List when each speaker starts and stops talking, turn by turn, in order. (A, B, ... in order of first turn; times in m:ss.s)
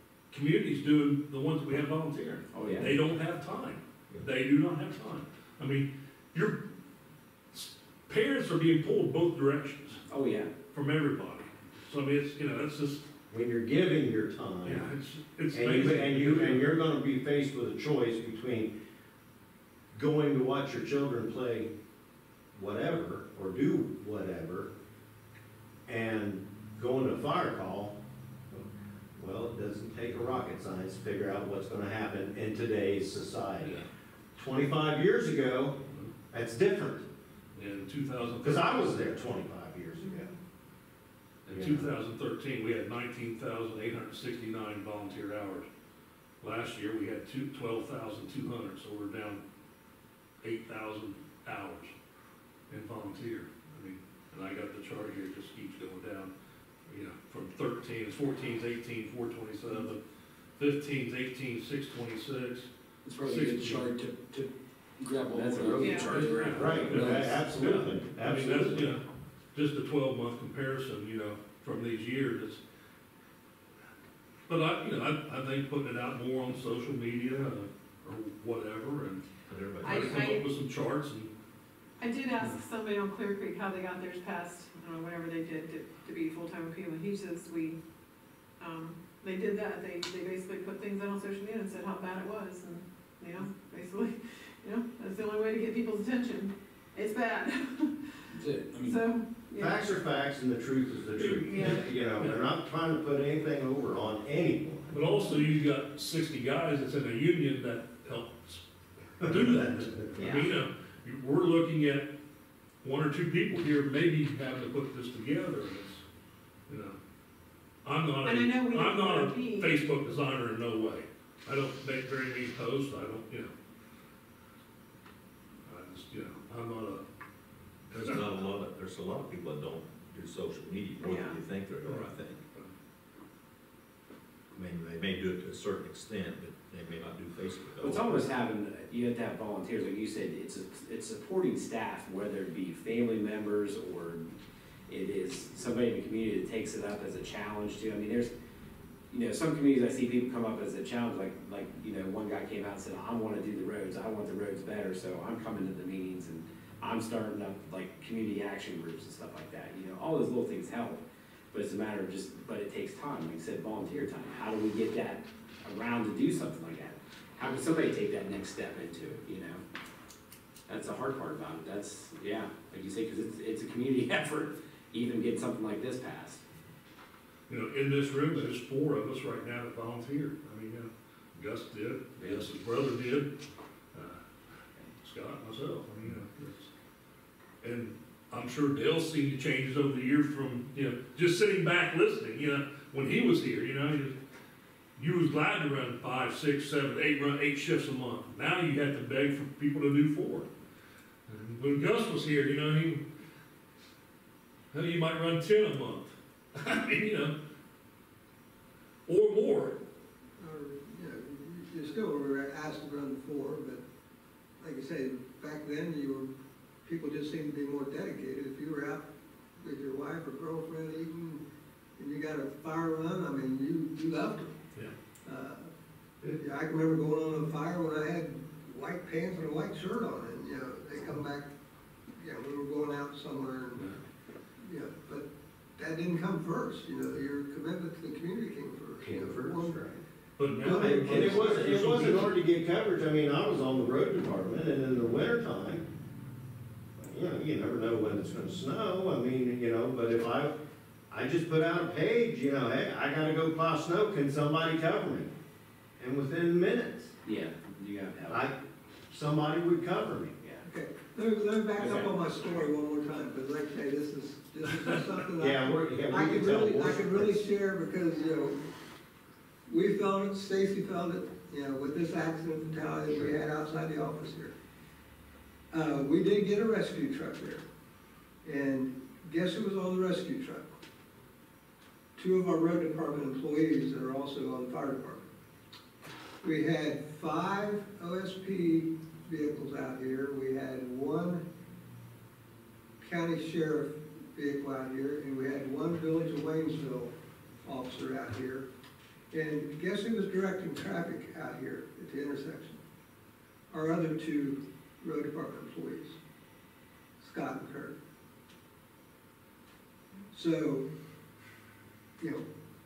0:00.3-0:06.6 A
0:02.5-0:03.0 B
0:07.5-0:10.0 A
0:10.1-0:10.5 B
0:10.7-0:13.1 A
0:13.3-0:14.9 C
0:14.6-0:16.7 A
0:15.5-0:18.7 C
0:19.9-0:21.7 C
0:22.5-0:24.7 C
0:25.9-0:28.0 C
0:28.5-0:33.8 C
0:33.6-0:33.9 A
0:34.4-0:35.8 C
0:36.3-0:37.1 C
0:37.6-0:39.2 A
0:38.4-0:40.3 C
0:40.0-0:40.3 D
0:41.4-0:45.7 A
0:41.5-0:41.9 C
0:46.4-0:49.4 A
0:50.4-0:51.9 A
0:52.7-0:56.3 A
0:56.9-1:00.0 A
1:00.6-1:02.7 A
1:03.0-1:07.5 E
1:03.2-1:03.9 A
1:05.3-1:06.9 B
1:05.8-1:06.1 D
1:06.0-1:12.6 A
1:06.5-1:09.0 C
1:14.5-1:19.3 A
1:19.5-1:20.1 F
1:19.8-1:21.3 A
1:19.8-1:20.4 D
1:22.0-1:27.8 D
1:28.6-1:38.3 D
1:38.3-1:39.0 E
1:38.8-1:40.0 D
1:39.6-1:45.3 C
1:41.2-1:42.4 A
1:41.5-1:41.8 D
1:44.9-1:48.6 A
1:49.2-1:50.0 C
1:49.2-1:52.1 A
1:50.2-1:50.5 D
1:52.8-1:56.0 A
1:56.7-1:57.0 A
1:57.8-2:03.5 A
1:58.2-1:59.7 D
2:05.6-2:07.0 A
2:07.9-2:08.4 A
2:08.0-2:12.4 F
2:11.0-2:11.4 D
2:11.8-2:12.7 A
2:14.5-2:18.3 F
2:17.8-2:24.3 B
2:24.9-2:28.3 B
2:29.1-2:49.6 B
2:50.7-2:56.4 B
2:57.5-3:03.4 A
3:02.2-3:02.5 B
3:03.9-3:04.2 A
3:05.0-3:06.7 A
3:07.6-3:14.2 A
3:15.0-3:20.5 A
3:21.3-3:23.0 A
3:24.7-3:27.4 A
3:29.1-3:29.8 A
3:30.4-3:33.8 G
3:34.6-3:41.4 G
3:42.0-3:44.6 G
3:45.2-3:45.7 G
3:46.2-3:51.5 G
3:52.2-3:54.0 G
3:54.6-3:59.9 G
3:59.0-4:00.0 C
4:00.4-4:02.4 A
4:00.6-4:02.1 G
4:00.7-4:05.9 C
4:07.0-4:10.6 C
4:11.1-4:15.3 C
4:16.0-4:17.1 C
4:17.2-4:18.5 B
4:18.3-4:20.4 C
4:20.6-4:28.7 G
4:21.8-4:22.1 B
4:25.4-4:27.4 C
4:29.7-4:34.6 G
4:35.7-4:37.6 G
4:38.4-4:40.8 G
4:42.2-4:45.3 G
4:46.4-4:51.4 G
4:53.0-4:58.7 G
4:59.3-5:02.8 G
5:03.7-5:06.2 G
5:07.2-5:08.0 G
5:10.3-5:10.8 G
5:12.2-5:12.4 G